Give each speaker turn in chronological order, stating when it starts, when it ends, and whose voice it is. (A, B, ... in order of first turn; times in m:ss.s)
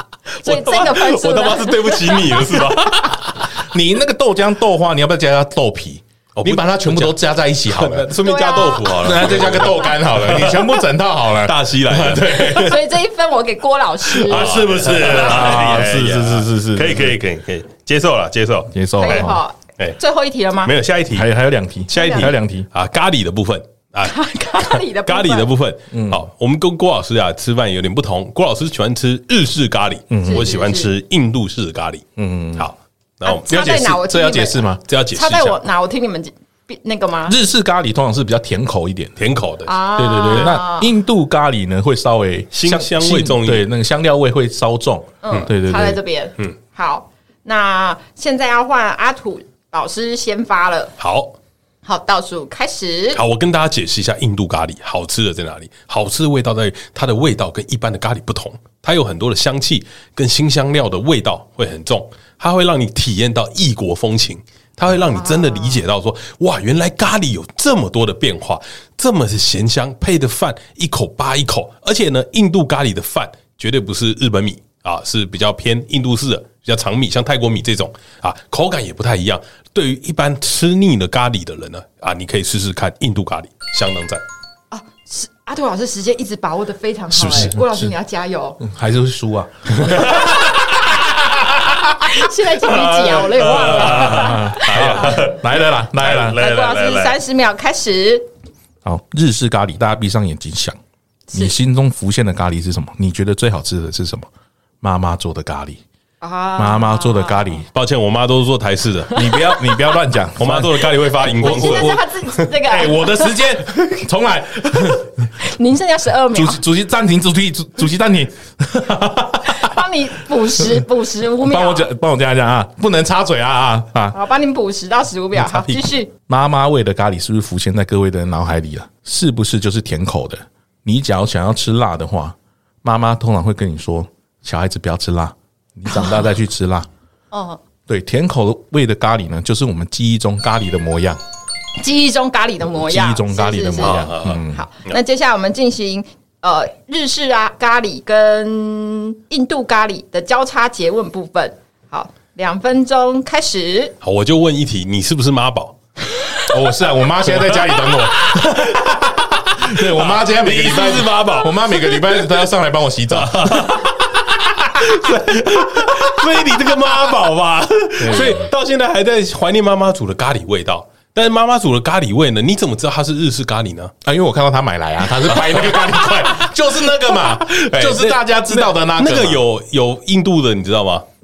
0:00.4-0:02.6 A
0:00.4-0:03.4 B
0:03.7-0:08.1 C
0:06.4-0:12.6 B
0:08.2-0:09.1 A
0:09.0-0:12.9 C
0:12.4-0:15.2 A
0:14.2-0:17.2 C
0:14.3-0:20.0 B
0:18.7-0:19.4 C
0:19.0-0:20.7 A
0:20.6-0:21.3 B
0:21.1-0:22.7 C
0:21.9-0:33.4 B
0:21.9-0:22.3 A
0:24.0-0:25.5 A
0:25.9-0:26.2 C
0:30.1-0:30.4 C
0:30.2-0:30.9 A
0:32.2-0:32.7 C
0:33.2-0:37.4 A
0:33.5-0:34.8 C
0:34.9-0:35.6 B
0:37.3-0:39.2 C
0:39.2-0:39.7 B
0:39.6-0:40.9 A
0:40.0-0:46.0 C
0:40.3-0:40.6 B
0:42.5-0:43.7 B
0:45.2-0:50.9 A
0:51.0-0:51.3 B
0:51.8-0:53.2 A
0:53.1-1:24.2 B
1:05.1-1:05.8 A
1:24.7-1:28.6 A
1:27.1-1:27.9 C
1:28.6-1:31.8 C
1:29.8-1:30.8 B
1:32.0-1:35.3 A
1:32.6-1:37.2 B
1:33.4-1:36.4 C
1:36.3-1:38.2 A
1:38.8-1:40.8 C
1:41.3-1:41.5 A
1:41.3-1:44.3 C
1:44.8-1:45.8 C
1:46.2-1:47.6 A
1:46.6-1:47.6 C
1:47.7-1:49.2 B
1:49.1-1:55.3 C
1:50.4-1:52.4 B
1:51.4-1:53.4 A
1:55.4-1:56.6 A
1:56.3-1:59.8 C
1:59.4-2:01.9 A
2:01.4-2:04.2 C
2:04.1-2:06.1 A
2:05.4-2:05.9 B
2:06.3-2:16.9 C
2:17.3-2:17.6 A
2:17.9-2:21.2 C
2:21.8-2:33.9 A
2:22.8-2:24.6 C
2:23.8-2:25.0 B
2:34.0-2:35.7 B
2:36.5-2:43.9 C
2:37.3-2:42.3 B
2:43.1-2:53.9 B
2:48.0-2:48.5 C
2:54.0-2:59.4 C
2:55.3-2:56.5 B
2:57.2-3:01.0 B